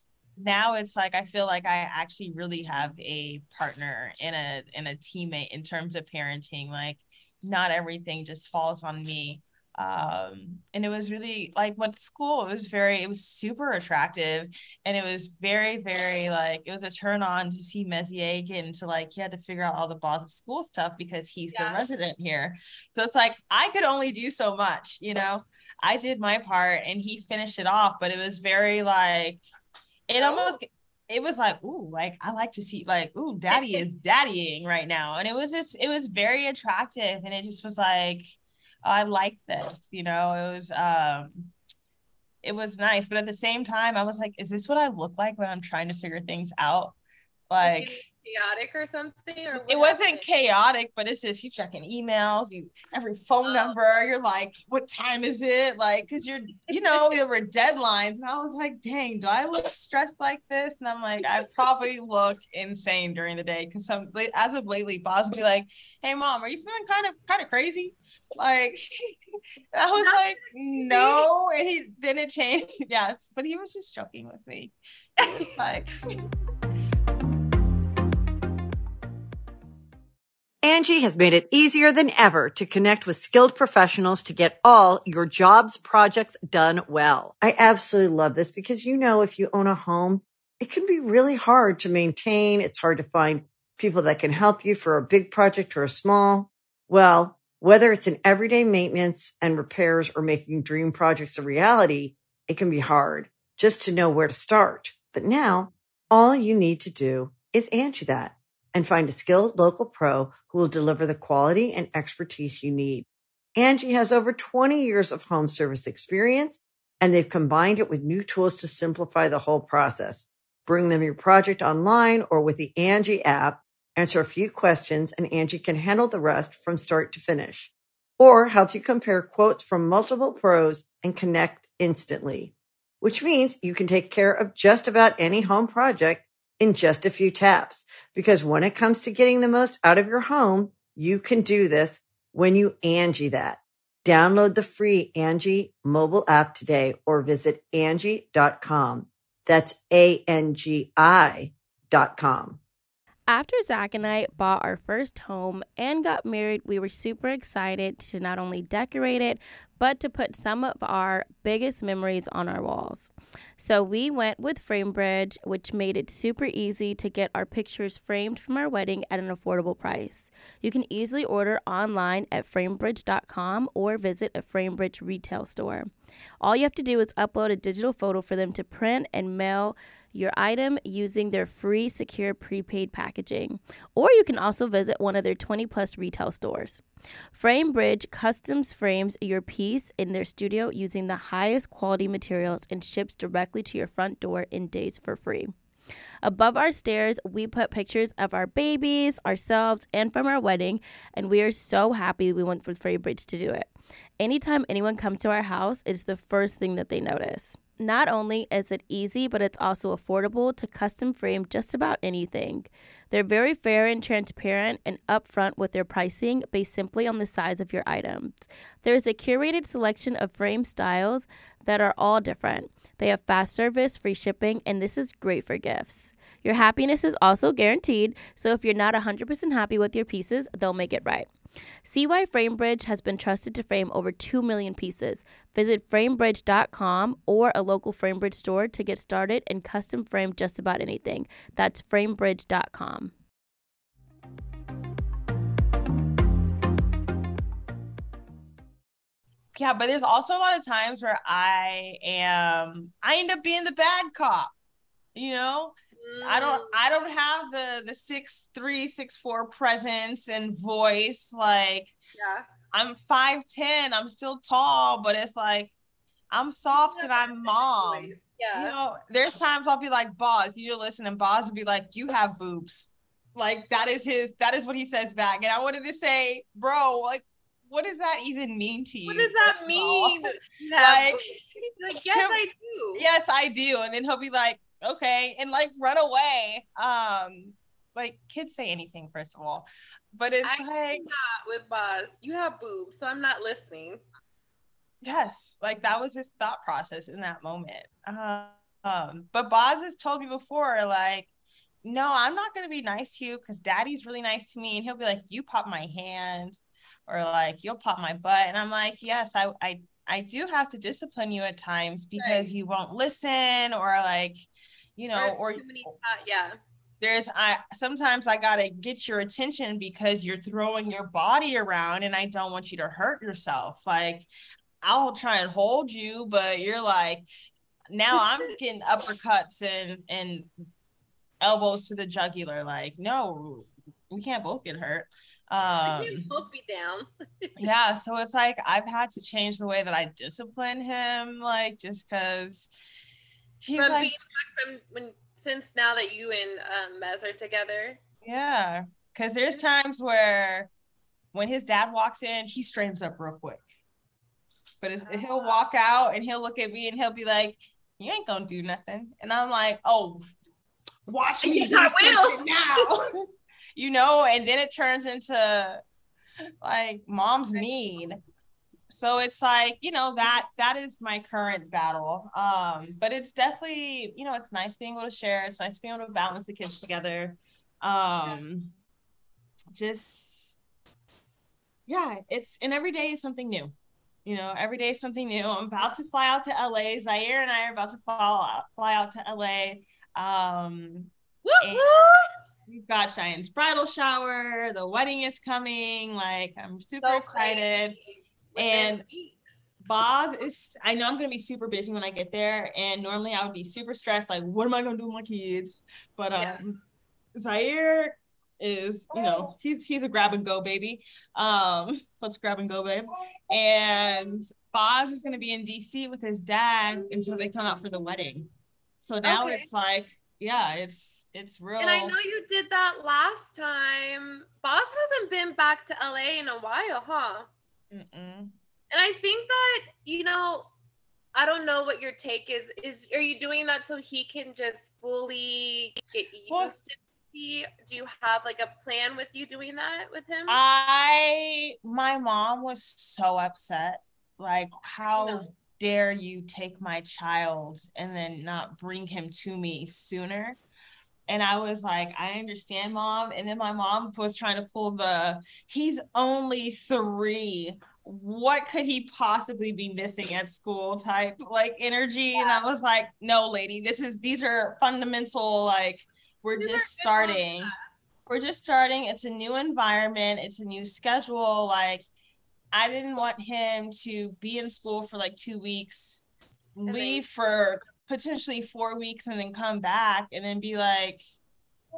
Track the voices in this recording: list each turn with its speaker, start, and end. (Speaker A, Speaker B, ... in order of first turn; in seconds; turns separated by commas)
Speaker A: 0.4-29.4, Speaker B: 21.5-21.8, Speaker A: 30.1-41.5, Speaker B: 30.2-30.6, Speaker B: 33.5-33.8, Speaker A: 42.4-47.0, Speaker A: 47.5-48.0, Speaker B: 47.6-50.3, Speaker A: 49.7-69.2, Speaker B: 53.4-53.8, Speaker B: 56.7-57.2, Speaker A: 69.7-76.1, Speaker B: 70.0-71.3, Speaker B: 75.2-75.5, Speaker C: 80.6-152.6, Speaker D: 153.3-175.9, Speaker D: 176.4-195.5, Speaker D: 196.2-231.3, Speaker D: 231.8-243.1, Speaker A: 249.6-254.5, Speaker A: 255.2-261.9, Speaker B: 256.0-256.8, Speaker B: 262.2-262.5, Speaker A: 262.7-265.7, Speaker A: 266.3-281.4, Speaker B: 266.7-268.8, Speaker B: 279.1-281.2, Speaker B: 281.8-283.1, Speaker A: 282.1-282.4, Speaker A: 282.9-291.1, Speaker B: 290.4-294.0, Speaker A: 295.0-301.3, Speaker A: 301.8-314.5, Speaker B: 312.2-312.5, Speaker A: 315.0-315.9, Speaker B: 315.1-316.6, Speaker A: 317.0-324.3, Speaker A: 324.8-327.3, Speaker A: 327.9-330.5, Speaker A: 331.4-336.3, Speaker B: 335.9-337.6, Speaker A: 337.6-342.7, Speaker A: 343.6-344.1, Speaker B: 343.8-348.0, Speaker A: 348.2-350.7, Speaker A: 351.3-353.6, Speaker A: 354.8-360.2, Speaker B: 355.0-355.6, Speaker A: 361.1-363.2, Speaker B: 361.4-362.9, Speaker A: 363.8-365.8, Speaker A: 366.6-368.2, Speaker A: 368.9-378.7, Speaker A: 379.7-380.6, Speaker A: 381.9-383.7, Speaker A: 384.2-391.1, Speaker B: 391.4-392.3, Speaker A: 391.6-391.9, Speaker A: 392.7-398.0, Speaker B: 397.0-399.7, Speaker A: 398.6-399.0, Speaker A: 399.8-406.8, Speaker B: 406.4-406.6, Speaker A: 407.4-418.5, Speaker A: 419.0-422.2, Speaker B: 419.2-419.7, Speaker B: 421.8-427.5, Speaker A: 427.9-428.5, Speaker B: 428.9-430.7, Speaker B: 431.4-440.6, Speaker A: 440.5-450.6, Speaker B: 445.1-445.5, Speaker A: 451.3-467.7, Speaker B: 462.3-462.6, Speaker B: 466.6-467.8, Speaker A: 468.3-472.0, Speaker A: 472.7-476.2, Speaker A: 476.8-481.2, Speaker B: 476.9-477.2